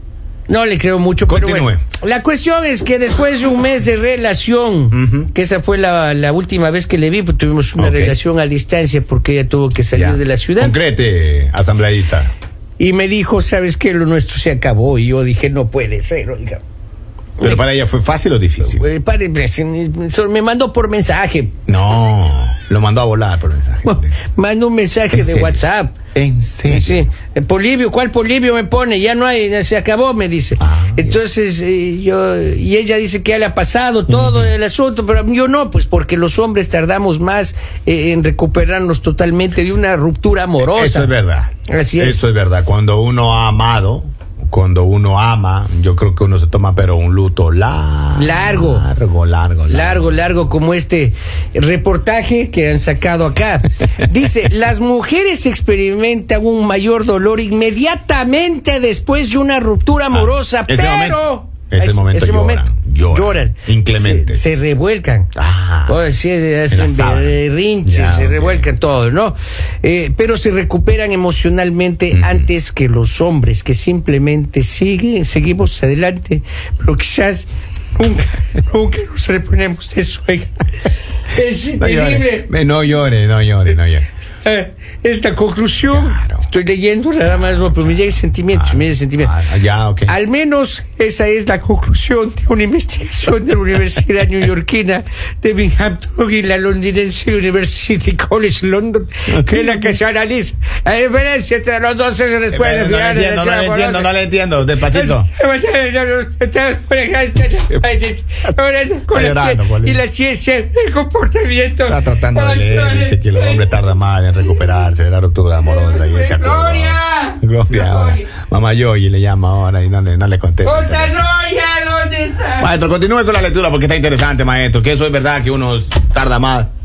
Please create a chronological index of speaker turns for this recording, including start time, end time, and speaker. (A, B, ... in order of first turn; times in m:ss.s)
0:00.5-0:10.8 A
0:01.3-0:01.8 B
0:04.9-0:05.3 B
0:07.8-0:08.2 B
0:09.9-0:12.3 B
0:12.8-0:16.6 A
0:17.4-0:18.9 B
0:18.6-0:21.5 A
0:21.7-0:24.1 B
0:23.8-0:26.0 A
0:25.1-0:25.6 B
0:26.1-0:27.1 B
0:26.6-0:41.1 A
0:30.6-0:31.1 B
0:34.1-0:34.5 B
0:40.6-0:50.3 B
0:41.7-0:42.2 A
0:48.2-0:48.9 A
0:49.7-1:05.3 A
1:00.1-1:04.6 B
1:05.3-1:06.0 B
1:05.9-1:20.6 A
1:06.7-1:08.7 B
1:12.1-1:12.5 B
1:21.3-1:22.5 A
1:21.8-1:24.1 B
1:24.4-1:29.3 A
1:25.9-1:26.5 B
1:27.2-1:30.1 B
1:30.0-1:44.1 A
1:39.3-1:40.0 B
1:42.5-1:45.3 B
1:44.9-1:53.8 A
1:49.1-1:50.0 B
1:51.8-2:01.2 B
1:55.6-1:58.3 A
2:00.6-2:02.7 A
2:02.6-2:06.7 B